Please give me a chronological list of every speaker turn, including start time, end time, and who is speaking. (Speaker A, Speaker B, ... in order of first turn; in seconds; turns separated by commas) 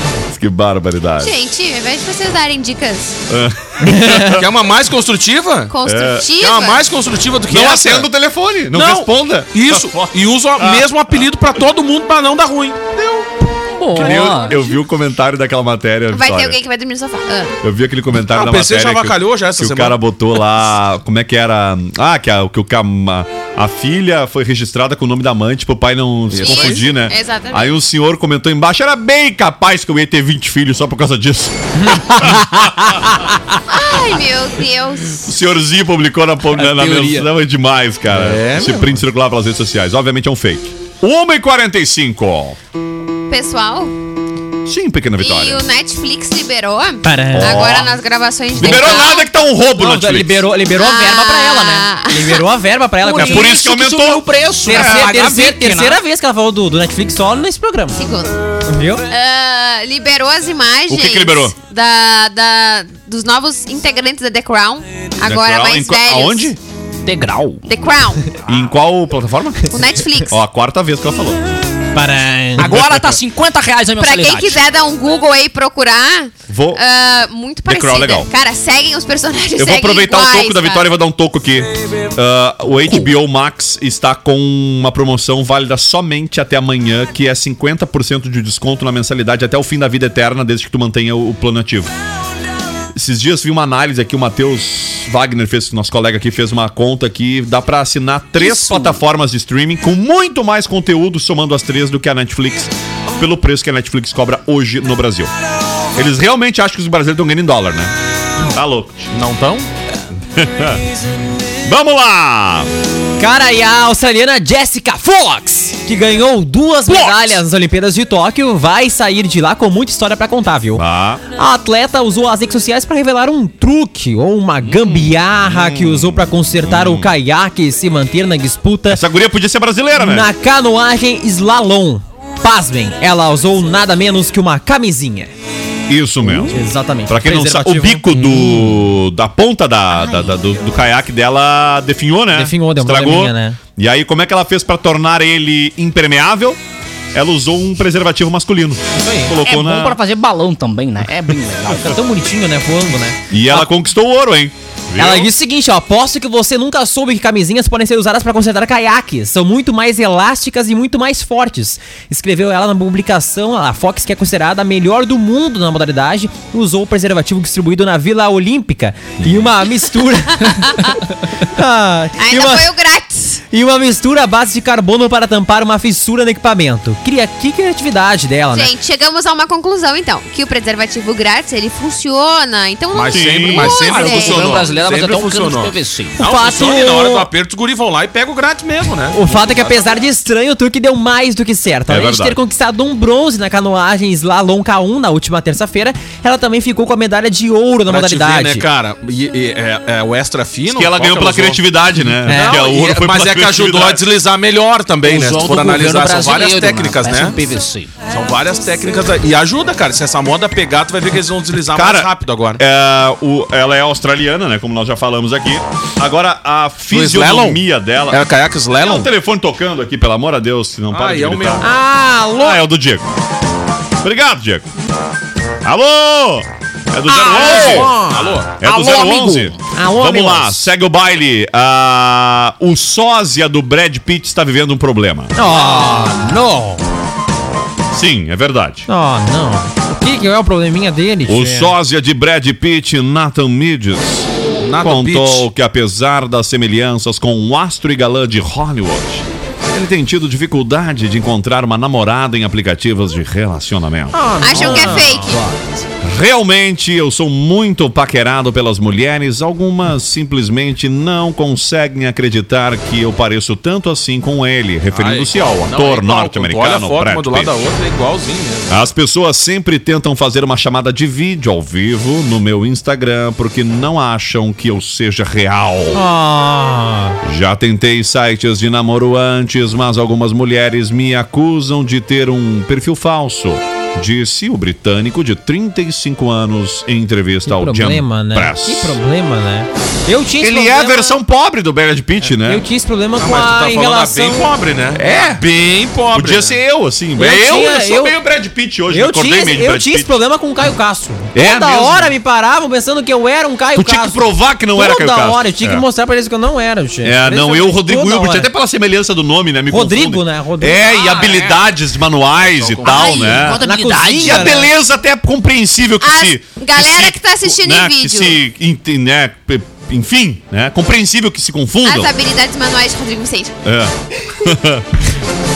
Speaker A: 0.3-1.3, Speaker B: 1.2-3.2, Speaker A: 3.3-4.5, Speaker C: 3.8-4.3, Speaker D: 4.3-5.7, Speaker B: 5.7-6.8, Speaker A: 5.8-6.3, Speaker D: 6.4-8.1, Speaker A: 7.5-10.9, Speaker D: 8.7-13.3, Speaker E: 13.7-14.6, Speaker D: 13.9-14.7, Speaker A: 14.0-16.6, Speaker B: 16.1-17.6, Speaker A: 17.6-33.2, Speaker D: 18.3-20.0, Speaker D: 26.3-26.8, Speaker B: 26.4-27.7, Speaker C: 31.9-33.4, Speaker B: 33.7-35.3, Speaker A: 35.2-42.6, Speaker E: 36.5-37.2, Speaker D: 38.1-39.0, Speaker B: 43.3-44.0, Speaker A: 44.7-45.6, Speaker B: 45.2-49.3, Speaker C: 47.0-47.7, Speaker A: 47.4-48.0, Speaker A: 48.5-50.5, Speaker C: 48.6-49.0, Speaker C: 49.8-53.5, Speaker B: 50.8-52.4, Speaker E: 53.0-56.0, Speaker A: 53.2-55.1, Speaker C: 54.6-58.0, Speaker B: 58.0-58.4, Speaker C: 58.7-59.0, Speaker B: 59.1-66.5, Speaker A: 60.9-61.5, Speaker A: 65.2-66.6, Speaker E: 67.0-67.6, Speaker B: 67.7-68.3, Speaker A: 68.5-69.7, Speaker B: 69.7-70.4, Speaker A: 70.2-71.4, Speaker C: 71.9-72.7, Speaker E: 72.6-74.6, Speaker A: 72.6-73.0, Speaker B: 74.0-80.9, Speaker A: 76.5-76.8, Speaker A: 77.7-78.3, Speaker A: 79.6-91.9, Speaker E: 82.8-83.1, Speaker A: 92.9-105.3, Speaker E: 98.4-99.0, Speaker A: 106.0-109.1, Speaker D: 109.1-109.7, Speaker A: 110.3-110.8, Speaker A: 111.6-112.7, Speaker C: 113.2-120.8, Speaker A: 116.9-117.4, Speaker A: 120.7-121.2, Speaker C: 121.3-129.0, Speaker A: 124.7-127.1, Speaker A: 128.9-130.3, Speaker C: 129.9-135.3, Speaker A: 135.9-146.6, Speaker C: 136.2-138.7, Speaker C: 142.3-143.6, Speaker A: 147.1-150.0, Speaker C: 149.0-149.4, Speaker E: 149.4-151.9, Speaker C: 151.7-153.7, Speaker A: 153.3-155.3, Speaker C: 155.0-172.7, Speaker A: 169.2-169.5, Speaker B: 170.4-171.0, Speaker B: 172.2-173.4, Speaker C: 173.5-178.7, Speaker B: 178.5-184.7, Speaker D: 182.9-189.9, Speaker A: 183.1-183.7, Speaker E: 183.7-186.2, Speaker C: 186.2-187.3, Speaker C: 189.1-198.7, Speaker A: 191.9-192.4, Speaker D: 197.9-201.6, Speaker A: 200.7-204.0, Speaker C: 202.3-202.6, Speaker D: 202.3-207.4, Speaker E: 205.0-207.9, Speaker D: 208.1-212.6, Speaker A: 211.7-218.2, Speaker D: 216.9-219.1, Speaker A: 218.8-221.7, Speaker D: 220.9-221.7, Speaker C: 221.6-222.6, Speaker A: 222.4-223.1, Speaker A: 224.0-224.7, Speaker A: 225.6-227.9, Speaker C: 227.1-228.4, Speaker D: 227.3-228.6, Speaker A: 228.6-235.3, Speaker E: 228.6-229.6, Speaker C: 229.7-230.7, Speaker C: 235.3-236.8, Speaker E: 235.6-236.2, Speaker A: 237.9-238.9, Speaker C: 238.9-241.7, Speaker A: 241.2-244.3, Speaker D: 244.6-245.5, Speaker A: 244.8-255.1, Speaker C: 254.1-255.6, Speaker B: 254.4-255.4, Speaker A: 256.0-267.5, Speaker D: 264.9-268.8, Speaker A: 268.7-276.0, Speaker C: 275.9-277.2, Speaker A: 277.2-289.0, Speaker C: 287.5-291.2, Speaker A: 290.4-292.6, Speaker C: 292.3-294.5, Speaker D: 293.2-296.6, Speaker A: 294.9-295.4, Speaker A: 296.1-300.1, Speaker C: 297.2-298.2, Speaker C: 298.9-304.2, Speaker A: 301.3-302.1, Speaker A: 303.8-305.8, Speaker C: 304.7-308.5, Speaker A: 307.0-313.6, Speaker C: 309.7-310.8, Speaker E: 310.9-311.5, Speaker D: 312.4-313.5, Speaker E: 312.9-314.7, Speaker C: 313.6-314.7, Speaker A: 314.2-322.1, Speaker B: 316.0-318.4, Speaker B: 321.8-323.6, Speaker A: 323.6-325.0